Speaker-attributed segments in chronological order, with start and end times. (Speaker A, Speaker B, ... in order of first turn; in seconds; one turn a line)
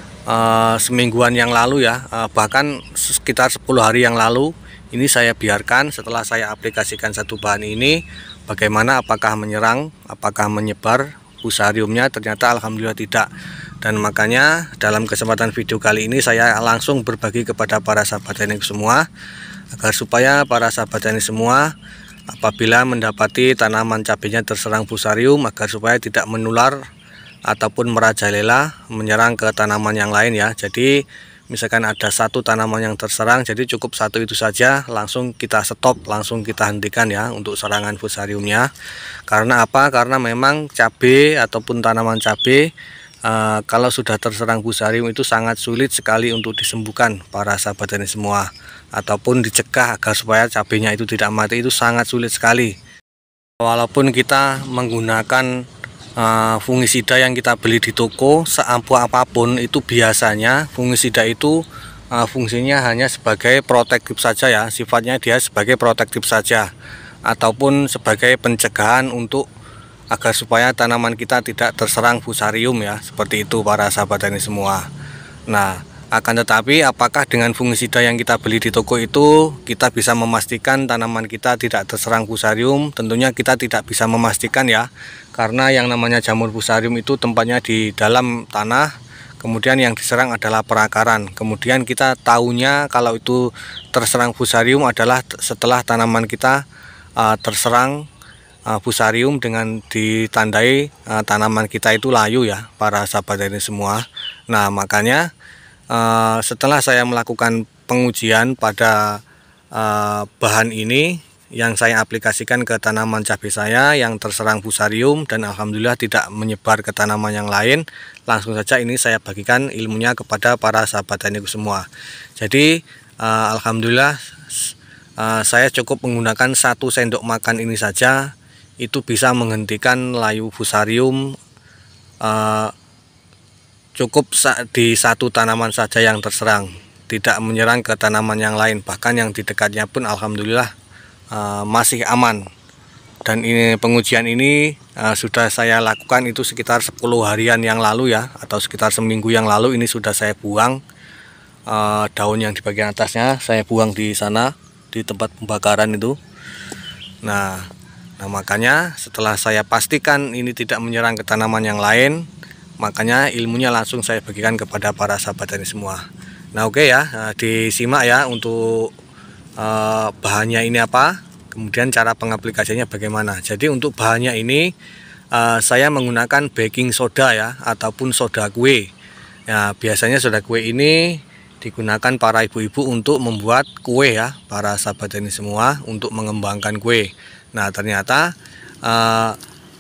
Speaker A: 0.3-13.3
Speaker A: 13.8-19.1
Speaker A: 19.7-21.7
Speaker A: 22.3-26.8
Speaker A: 27.5-38.7
Speaker A: 39.3-42.7
Speaker A: 43.2-52.8
Speaker A: 53.6-55.6
Speaker A: 56.2-66.7
Speaker A: 67.3-69.5
Speaker A: 70.1-74.9
Speaker A: 75.5-88.9
Speaker A: 89.4-96.6
Speaker A: 97.2-98.0
Speaker A: 98.7-105.3
Speaker A: 105.9-109.2
Speaker A: 109.8-121.9
Speaker A: 122.4-128.3
Speaker A: 128.8-131.4
Speaker A: 132.2-132.7
Speaker A: 134.0-140.7
Speaker A: 141.3-142.5
Speaker A: 143.2-150.8
Speaker A: 151.7-156.2
Speaker A: 157.2-157.7
Speaker A: 158.2-162.2
Speaker A: 162.8-168.9
Speaker A: 169.6-174.7
Speaker A: 175.3-178.9
Speaker A: 179.5-188.3
Speaker A: 188.8-189.4